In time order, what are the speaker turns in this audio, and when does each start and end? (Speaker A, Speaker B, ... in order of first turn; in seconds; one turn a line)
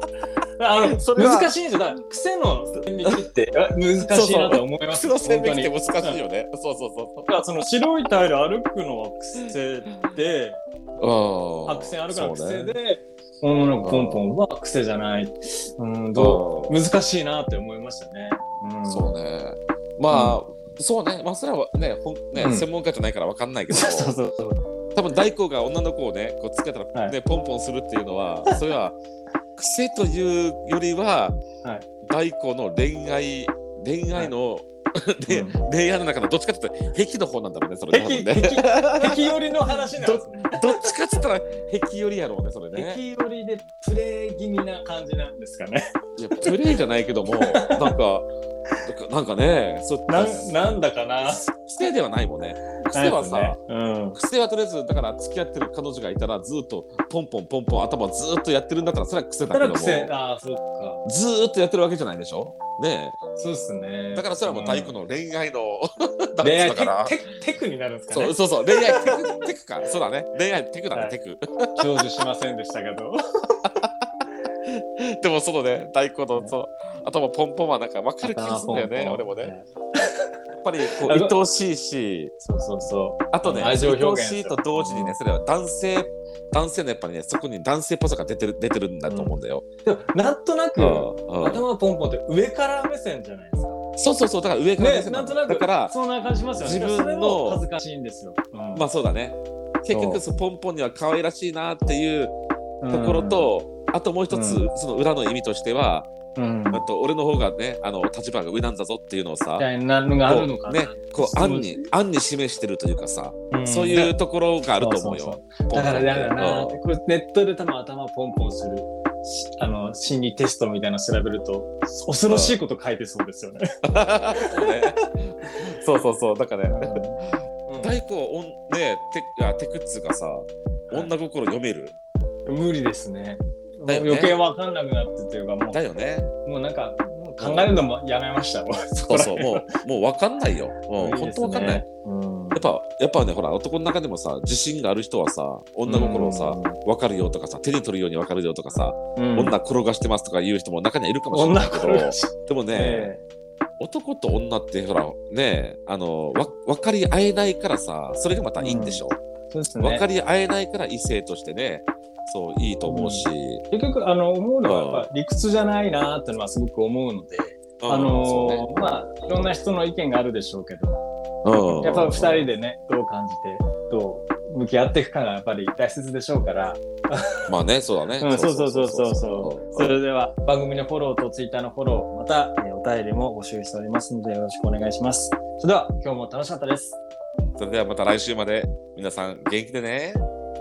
Speaker A: 0.6-6.2
Speaker B: 0.9-1.5
Speaker B: 4.1-7.3
Speaker A: 7.3-10.6
Speaker B: 11.0-12.8
Speaker A: 11.7-19.1
Speaker B: 13.8-14.3
Speaker B: 16.1-16.8
Speaker B: 18.9-24.1
Speaker A: 20.1-20.4
Speaker A: 22.4-22.6
Speaker A: 23.7-24.6
Speaker B: 24.9-29.0
Speaker B: 29.6-31.4
Speaker B: 32.0-43.0
Speaker A: 35.3-35.6
Speaker A: 37.9-40.8
Speaker A: 42.7-46.6
Speaker B: 46.2-48.3
Speaker A: 47.4-48.0
Speaker B: 48.9-50.5
Speaker A: 50.1-51.5
Speaker B: 51.3-53.6
Speaker A: 52.9-54.2
Speaker B: 54.1-60.1
Speaker A: 59.5-61.0
Speaker B: 61.0-63.2
Speaker A: 63.4-65.0
Speaker B: 64.1-67.2
Speaker A: 66.4-69.5
Speaker B: 68.1-71.9
Speaker A: 71.8-73.2
Speaker B: 73.6-73.9
Speaker B: 74.6-79.5
Speaker A: 78.2-80.3
Speaker B: 80.6-82.3
Speaker A: 80.9-81.4
Speaker A: 82.4-85.2
Speaker B: 83.3-89.6
Speaker A: 89.1-93.8
Speaker B: 90.8-91.6
Speaker B: 94.0-95.9
Speaker A: 94.8-98.9
Speaker B: 96.6-97.6
Speaker B: 98.7-102.3
Speaker A: 99.9-100.2
Speaker A: 102.8-103.5
Speaker B: 102.9-106.1
Speaker A: 104.3-104.7
Speaker A: 106.4-106.9
Speaker B: 106.7-109.7
Speaker A: 109.6-111.9
Speaker B: 110.2-116.8
Speaker A: 113.5-114.2
Speaker A: 114.8-123.8
Speaker B: 122.3-122.6
Speaker B: 123.8-132.0
Speaker A: 124.3-124.9
Speaker A: 126.7-128.0
Speaker A: 132.5-135.8
Speaker B: 133.9-134.4
Speaker B: 135.7-136.3
Speaker A: 136.4-139.8
Speaker B: 137.4-137.8
Speaker B: 138.9-141.8
Speaker A: 140.9-142.7
Speaker B: 142.5-153.1
Speaker A: 145.9-146.8
Speaker A: 149.2-149.6
Speaker A: 151.3-153.2
Speaker B: 153.8-159.2
Speaker A: 158.6-160.1
Speaker B: 159.8-163.6
Speaker A: 162.9-177.5
Speaker B: 164.6-165.1
Speaker B: 167.8-169.4
Speaker B: 171.4-172.5
Speaker B: 177.5-180.0
Speaker A: 178.2-187.0
Speaker B: 187.6-190.2